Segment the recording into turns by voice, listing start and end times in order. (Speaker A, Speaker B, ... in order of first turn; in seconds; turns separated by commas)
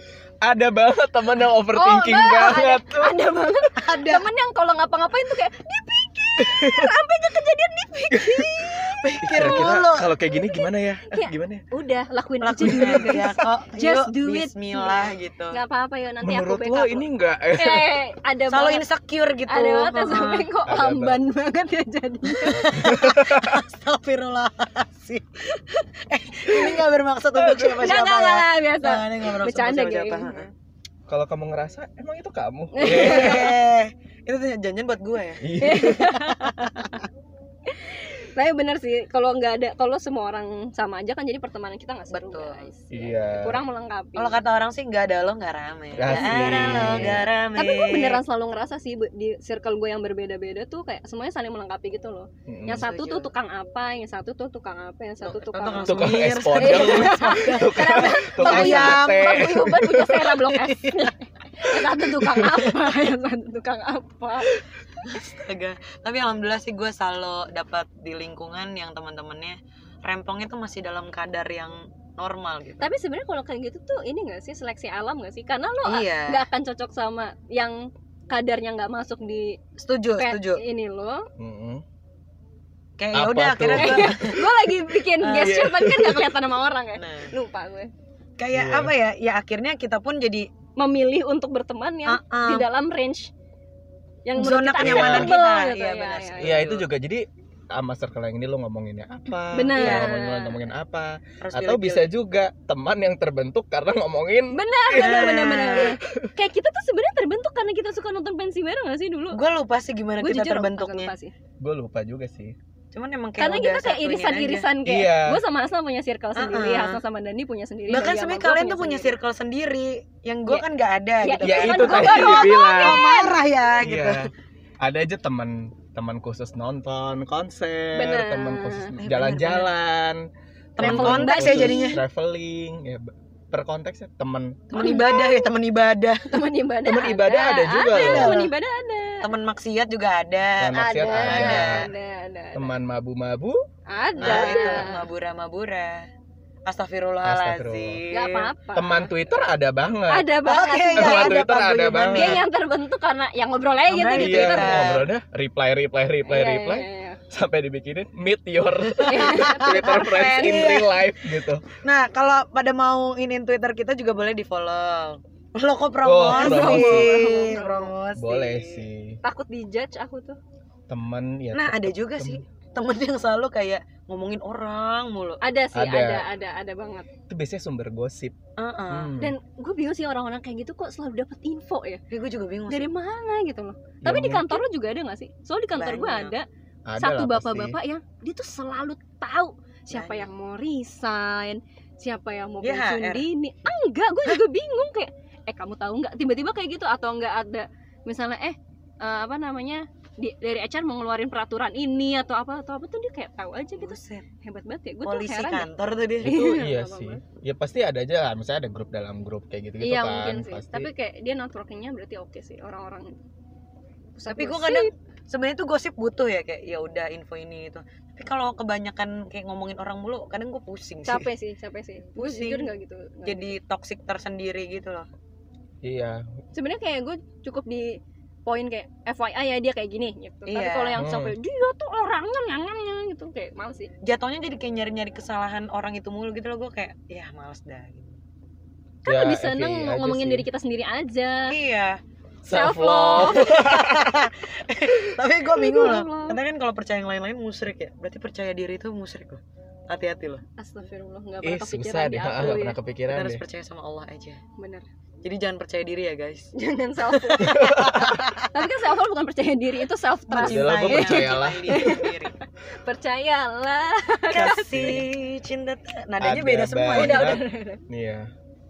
Speaker A: 0.4-3.1, Speaker B: 1.7-8.8, Speaker C: 3.8-4.3, Speaker A: 6.4-6.9, Speaker A: 8.1-8.6, Speaker C: 8.7-10.1, Speaker A: 9.2-11.6, Speaker B: 9.3-9.7, Speaker B: 10.3-14.9, Speaker C: 12.4-15.6, Speaker A: 12.6-13.2, Speaker B: 15.5-18.8, Speaker A: 16.2-18.0, Speaker C: 18.5-20.5, Speaker B: 19.5-22.7, Speaker A: 20.6-21.2, Speaker C: 22.4-30.5, Speaker A: 22.6-23.6, Speaker B: 26.5-26.8, Speaker A: 27.4-27.9, Speaker B: 27.8-30.5, Speaker A: 31.1-33.5, Speaker B: 32.7-33.5, Speaker C: 32.8-37.0, Speaker A: 35.4-36.1, Speaker B: 35.6-36.7, Speaker B: 37.7-44.4, Speaker C: 42.1-42.6, Speaker A: 42.9-43.6, Speaker C: 44.1-48.2, Speaker A: 46.0-47.3, Speaker B: 46.1-64.6, Speaker A: 52.5-52.8, Speaker C: 52.8-53.3, Speaker C: 55.2-59.5, Speaker A: 55.8-60.4, Speaker C: 60.5-61.1, Speaker A: 62.2-62.7, Speaker C: 65.1-72.9, Speaker B: 72.8-79.6, Speaker C: 75.8-76.4, Speaker C: 79.8-80.6, Speaker B: 80.2-81.3, Speaker A: 81.4-81.8, Speaker C: 83.0-84.4, Speaker A: 83.1-84.2, Speaker B: 83.8-87.9, Speaker C: 85.2-85.6, Speaker A: 85.4-86.3, Speaker C: 87.0-87.3, Speaker C: 88.4-90.5, Speaker A: 88.5-88.9, Speaker B: 90.8-93.3, Speaker C: 92.0-92.7, Speaker B: 94.2-96.6, Speaker C: 94.3-96.9, Speaker A: 94.8-95.3, Speaker A: 96.4-105.3, Speaker B: 99.5-100.6, Speaker C: 99.8-100.1, Speaker C: 101.4-102.1, Speaker B: 104.5-109.4, Speaker C: 104.9-106.0, Speaker C: 109.3-111.1, Speaker B: 110.2-111.3, Speaker A: 111.6-112.5, Speaker C: 112.9-114.7, Speaker B: 113.4-119.1, Speaker A: 114.8-115.4, Speaker C: 116.3-117.0, Speaker C: 117.9-124.3, Speaker B: 121.2-123.3, Speaker A: 121.4-123.0, Speaker A: 123.8-124.3, Speaker A: 124.8-134.9, Speaker B: 127.9-128.9, Speaker C: 129.0-129.7, Speaker C: 130.8-132.0, Speaker B: 130.8-132.0, Speaker C: 134.7-136.3, Speaker B: 134.8-135.5, Speaker B: 136.3-139.2, Speaker A: 136.8-138.4, Speaker C: 137.9-138.5, Speaker C: 139.2-141.9, Speaker A: 140.6-141.9, Speaker B: 140.7-142.7, Speaker A: 142.5-143.6, Speaker B: 143.9-145.0, Speaker A: 144.2-144.9, Speaker C: 144.2-146.1, Speaker C: 146.7-148.5, Speaker A: 147.2-148.0, Speaker B: 148.1-149.1, Speaker A: 148.7-150.3, Speaker B: 150.1-151.4, Speaker C: 150.4-152.4, Speaker A: 150.9-152.4, Speaker B: 152.1-155.0, Speaker C: 153.9-155.1, Speaker A: 154.2-161.6, Speaker B: 156.3-157.2, Speaker C: 158.9-161.0, Speaker B: 159.0-160.7, Speaker C: 161.8-168.9, Speaker A: 166.0-167.2, Speaker B: 166.3-167.9, Speaker A: 168.2-169.2, Speaker B: 169.2-170.4, Speaker A: 170.9-172.4, Speaker C: 171.5-175.4, Speaker B: 175.4-177.1, Speaker A: 175.7-176.3, Speaker A: 177.3-178.3, Speaker C: 178.6-179.1, Speaker A: 178.9-179.3, Speaker B: 179.2-182.0, Speaker C: 182.1-182.9, Speaker B: 182.7-186.4, Speaker A: 184.0-184.6, Speaker C: 185.8-186.3, Speaker A: 186.8-187.8, Speaker B: 187.0-205.7, Speaker C: 189.9-190.3, Speaker C: 192.6-193.3, Speaker C: 203.8-204.2, Speaker C: 205.0-206.4, Speaker A: 206.2-210.9, Speaker B: 206.2-207.2, Speaker B: 209.8-213.2, Speaker B: 214.2-214.9, Speaker C: 214.3-221.3, Speaker B: 221.0-223.5, Speaker C: 222.2-222.7, Speaker C: 223.2-225.1, Speaker A: 225.8-226.2, Speaker B: 226.5-233.9, Speaker C: 230.5-231.0, Speaker A: 231.0-231.3, Speaker C: 234.0-238.2, Speaker B: 239.0-241.5, Speaker A: 239.1-240.4, Speaker C: 241.5-242.0, Speaker A: 242.4-244.2, Speaker B: 242.5-243.5, Speaker C: 243.1-250.4, Speaker B: 245.4-246.4, Speaker B: 250.6-252.8, Speaker A: 251.4-253.4, Speaker C: 253.1-254.4, Speaker B: 254.6-254.8, Speaker C: 255.2-256.5, Speaker B: 256.5-257.8, Speaker C: 257.0-258.5, Speaker A: 257.4-258.2, Speaker B: 258.4-262.3, Speaker C: 260.3-262.4, Speaker A: 260.4-261.8, Speaker B: 262.8-264.7, Speaker C: 264.3-267.4, Speaker A: 264.3-265.1, Speaker A: 266.2-268.3, Speaker B: 266.9-267.8